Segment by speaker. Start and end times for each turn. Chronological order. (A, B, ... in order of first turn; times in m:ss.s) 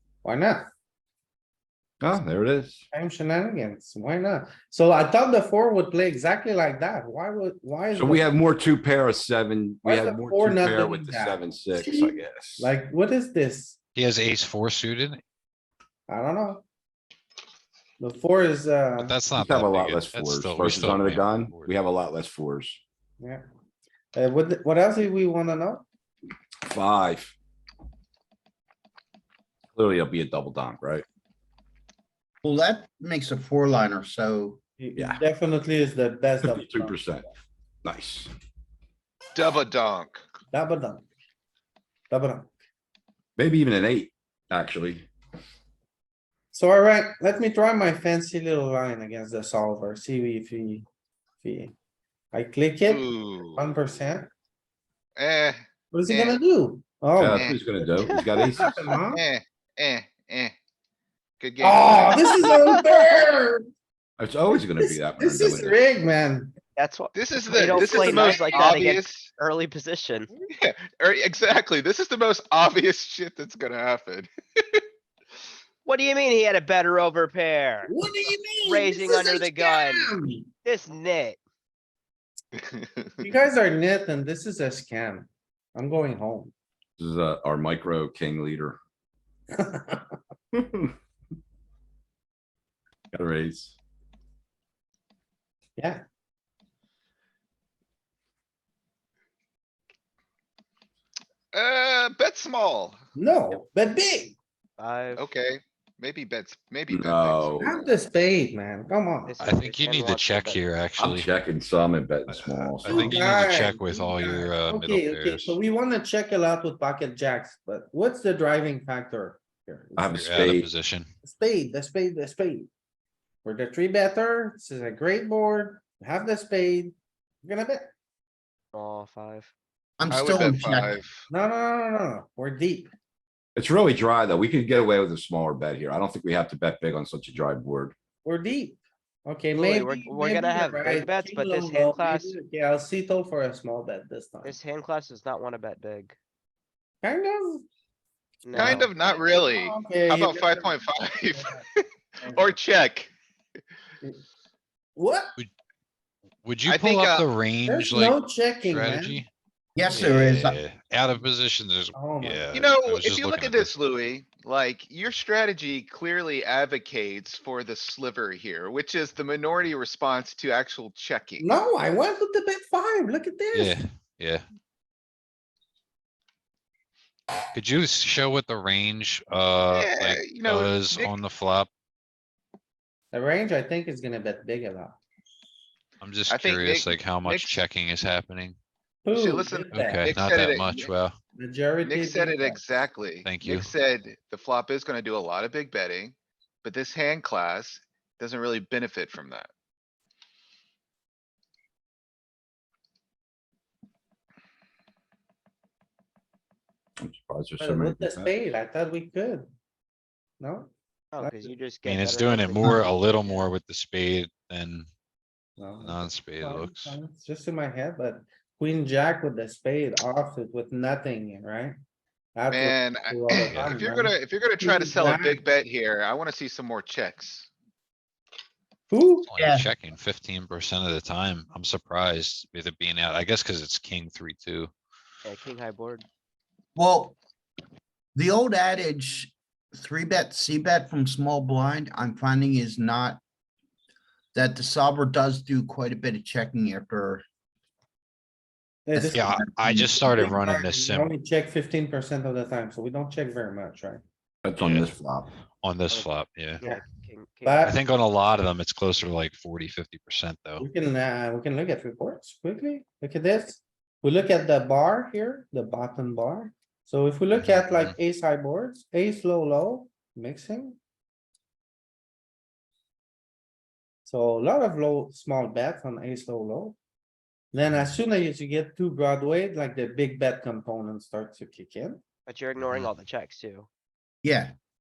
0:00.2-0:00.7 A
0:02.0-0:02.8 B
0:02.9-0:08.3 A
0:07.9-0:12.7 B
0:09.8-0:13.8 A
0:14.0-0:15.2 C
0:16.1-0:16.6 A
0:18.0-0:19.2 A
0:19.0-0:21.7 C
0:19.4-0:22.8 B
0:24.1-0:25.8 A
0:26.6-0:27.3 B
0:29.7-0:31.0 B
0:32.4-0:34.6 D
0:34.8-0:37.1 A
0:35.0-0:35.2 B
0:36.4-0:37.3 B
0:37.8-0:38.3 B
0:39.3-0:40.2 E
0:40.5-0:41.0 A
0:42.1-0:42.5 A
0:43.4-0:45.1 B
0:46.5-0:50.8 A
0:51.4-0:51.7 A
0:52.3-0:54.3 A
0:52.9-0:53.6 E
0:55.2-0:56.4 E
0:55.9-0:59.2 A
0:57.2-0:58.8 B
0:57.2-0:57.6 E
0:58.0-0:59.0 F
0:58.6-1:00.5 E
1:01.4-1:02.5 E
1:01.6-1:03.7 A
1:02.1-1:03.2 F
1:04.2-1:05.8 B
1:04.8-1:06.6 A
1:06.8-1:10.3 F
1:07.1-1:09.3 E
1:07.7-1:08.8 A
1:10.5-1:14.8 E
1:15.8-1:17.9 F
1:17.8-1:20.5 A
1:18.6-1:21.4 F
1:22.6-1:23.0 E
1:23.2-1:26.5 A
1:27.0-1:28.8 B
1:29.6-1:30.1 A
1:30.5-1:30.9 B
1:33.1-1:33.8 B
1:35.8-1:36.0 A
1:41.5-1:43.0 E
1:43.1-1:44.4 A
1:44.8-1:45.3 F
1:45.2-1:47.9 E
1:46.9-1:47.7 B
1:47.6-1:49.5 A
1:49.3-1:50.6 F
1:49.4-1:51.3 C
1:51.0-1:53.1 B
1:52.3-1:55.6 C
1:52.8-2:00.6 A
2:00.0-2:00.7 B
2:00.1-2:01.1 C
2:01.2-2:02.7 A
2:03.4-2:07.9 A
2:08.7-2:09.5 F
2:10.0-2:11.0 D
2:10.1-2:11.2 E
2:11.3-2:12.9 A
2:13.6-2:17.9 B
2:18.2-2:24.6 A
2:19.5-2:22.4 F
2:24.4-2:26.2 F
2:27.0-2:27.6 A
2:28.4-2:29.2 F
2:28.5-2:33.1 E
2:28.6-2:30.8 A
2:31.3-2:31.6 A
2:32.2-2:32.5 A
2:35.0-2:35.3 A
2:36.4-2:39.3 C
2:36.6-2:37.2 E
2:37.6-2:39.2 A
2:39.7-2:40.6 D
2:39.9-2:43.7 C
2:41.9-2:42.6 A
2:42.5-2:51.5 E
2:51.4-2:53.8 A
2:53.5-2:54.4 C
2:57.5-3:01.7 C
2:59.7-3:01.2 E
3:03.1-3:05.0 A
3:06.0-3:08.6 C
3:06.3-3:07.6 E
3:09.0-3:10.0 A
3:09.1-3:10.9 E
3:09.7-3:11.1 C
3:11.4-3:12.6 A
3:11.8-3:19.5 E
3:13.2-3:13.7 C
3:27.0-3:28.3 B
3:27.6-3:29.5 A
3:30.4-3:31.5 A
3:31.1-3:33.3 F
3:31.8-3:34.9 C
3:35.6-3:41.7 A
3:35.8-3:37.0 C
3:42.3-3:45.4 A
3:42.5-3:47.5 E
3:43.4-3:43.8 C
3:48.9-3:49.3 A
3:49.2-3:54.7 C
3:49.4-3:49.7 D
3:55.2-3:56.0 F
3:56.7-3:57.2 D
3:58.1-4:03.2 D
4:04.3-4:07.2 D
4:08.8-4:09.4 A
4:08.9-4:09.9 D
4:09.1-4:11.1 C
4:10.0-4:14.0 A
4:14.4-4:15.3 B
4:14.6-4:14.9 C
4:15.6-4:16.6 C
4:15.9-4:17.6 F
4:17.4-4:17.8 A
4:17.6-4:20.6 C
4:20.6-4:30.8 A
4:27.4-4:27.9 C
4:34.0-4:36.8 A
4:37.5-4:42.0 A
4:42.3-4:43.7 F
4:42.6-4:42.9 C
4:44.2-4:44.5 D